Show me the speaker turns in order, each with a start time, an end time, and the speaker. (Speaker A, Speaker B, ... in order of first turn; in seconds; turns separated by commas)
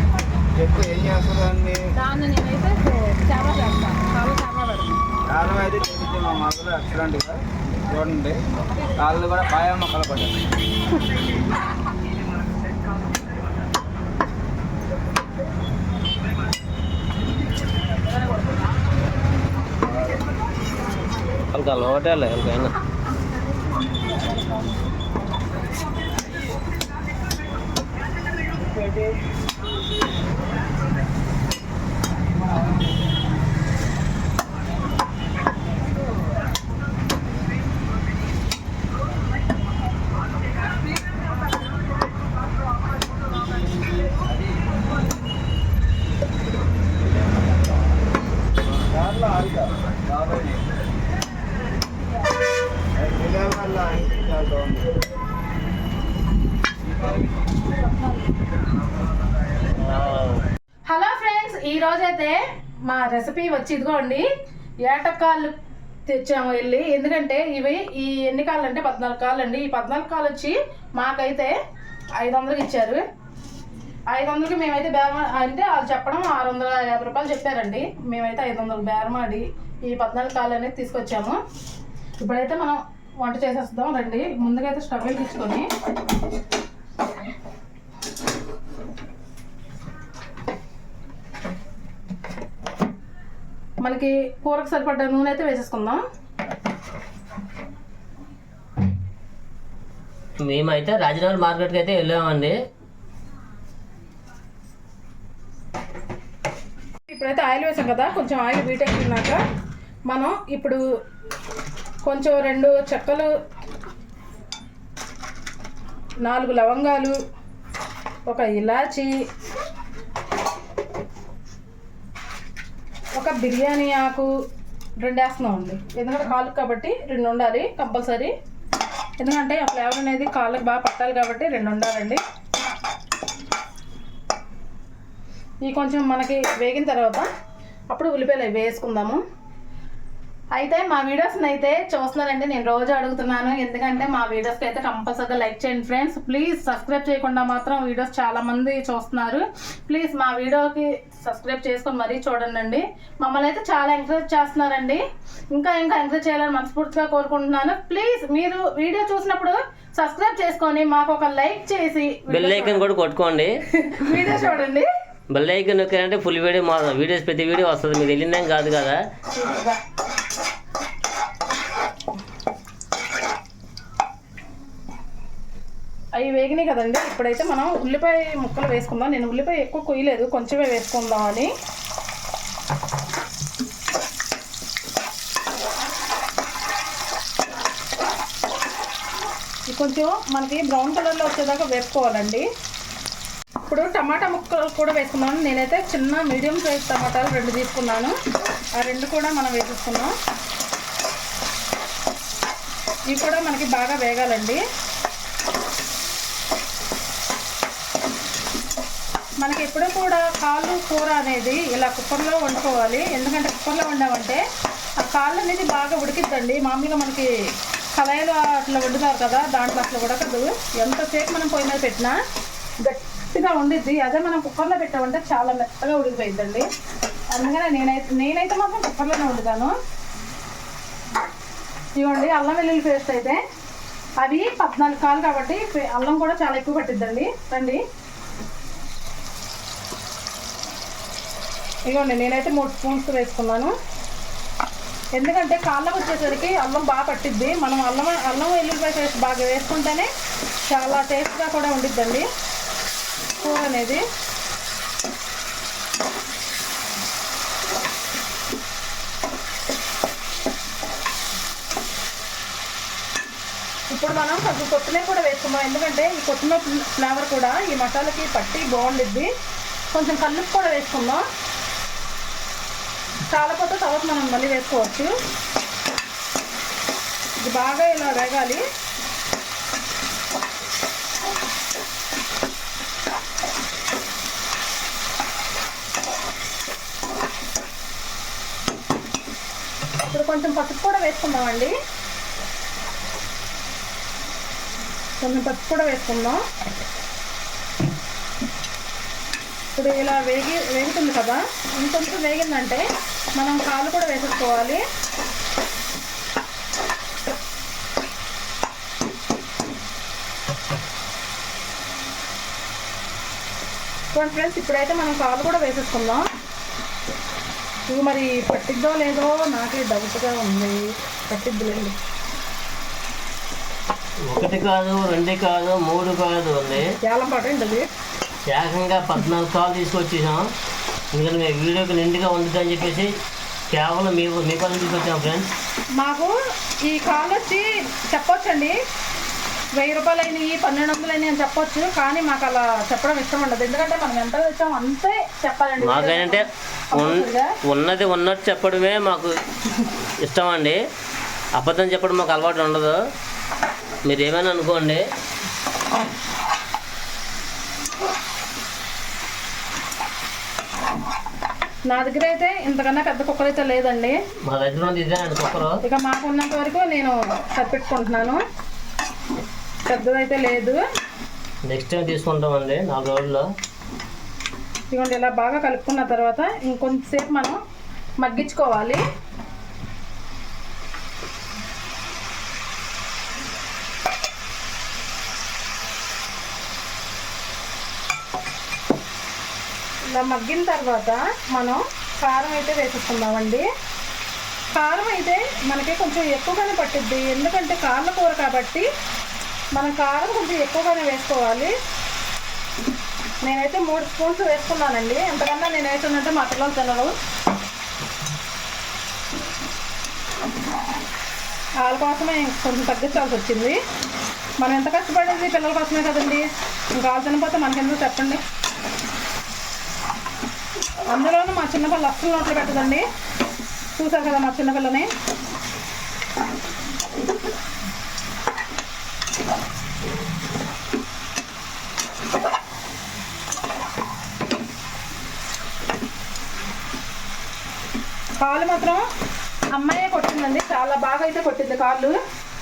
Speaker A: 0.6-1.8, Speaker B: 1.9-5.0, Speaker A: 5.3-8.4, Speaker A: 8.9-10.4, Speaker A: 19.8-20.2, Speaker C: 21.5-22.8, Speaker A: 28.6-29.1, Speaker A: 48.7-50.7, Speaker A: 53.0-55.0, Speaker C: 59.8-60.4, Speaker B: 60.9-64.2, Speaker B: 64.9-65.5, Speaker B: 66.1-71.5, Speaker B: 72.2-73.0, Speaker B: 74.1-81.4, Speaker B: 82.2-85.7, Speaker B: 93.8-96.0, Speaker C: 100.4-102.5, Speaker B: 107.1-109.4, Speaker B: 110.1-110.8, Speaker B: 112.0-113.3, Speaker B: 116.2-117.2, Speaker B: 118.3-119.1, Speaker B: 123.2-124.3, Speaker B: 125.0-128.3, Speaker B: 129.2-132.2, Speaker B: 135.6-137.3, Speaker B: 137.9-139.2, Speaker B: 140.5-155.0, Speaker B: 155.5-162.9, Speaker C: 162.3-163.5, Speaker B: 163.7-164.8, Speaker C: 165.3-169.0, Speaker B: 169.3-169.8, Speaker B: 176.2-181.5, Speaker B: 189.7-192.5, Speaker B: 193.7-198.1, Speaker B: 198.8-200.1, Speaker B: 203.1-204.6, Speaker B: 209.4-214.4, Speaker B: 215.0-217.3, Speaker B: 217.9-222.2, Speaker B: 222.8-226.6, Speaker B: 227.3-229.7, Speaker B: 232.0-233.4, Speaker B: 234.2-237.8, Speaker B: 241.9-243.7, Speaker B: 245.2-250.1, Speaker B: 250.7-252.2, Speaker B: 253.4-254.0, Speaker B: 263.9-269.3, Speaker B: 269.9-271.2, Speaker B: 273.3-275.1, Speaker B: 277.4-278.6, Speaker B: 290.1-291.7, Speaker B: 295.2-296.4, Speaker B: 299.8-304.8, Speaker B: 314.1-316.2, Speaker B: 317.9-321.9, Speaker C: 324.3-326.9, Speaker B: 327.0-327.9, Speaker C: 328.4-330.5, Speaker C: 331.1-333.1, Speaker C: 333.7-335.5, Speaker B: 336.0-336.3, Speaker B: 336.9-338.8, Speaker B: 339.8-347.5, Speaker C: 345.8-349.3, Speaker C: 350.2-350.8, Speaker C: 351.6-353.0, Speaker C: 354.1-355.0, Speaker B: 361.9-364.2, Speaker C: 364.5-365.8, Speaker B: 365.8-368.4, Speaker B: 369.9-370.8, Speaker C: 371.7-373.4, Speaker B: 374.9-377.6, Speaker B: 378.2-379.0, Speaker B: 390.1-393.6, Speaker B: 394.7-398.9, Speaker B: 399.7-401.7, Speaker B: 403.4-407.1, Speaker B: 411.8-413.8, Speaker B: 414.6-418.4, Speaker B: 421.1-423.0, Speaker B: 423.9-425.1, Speaker B: 438.4-439.0, Speaker B: 439.7-442.1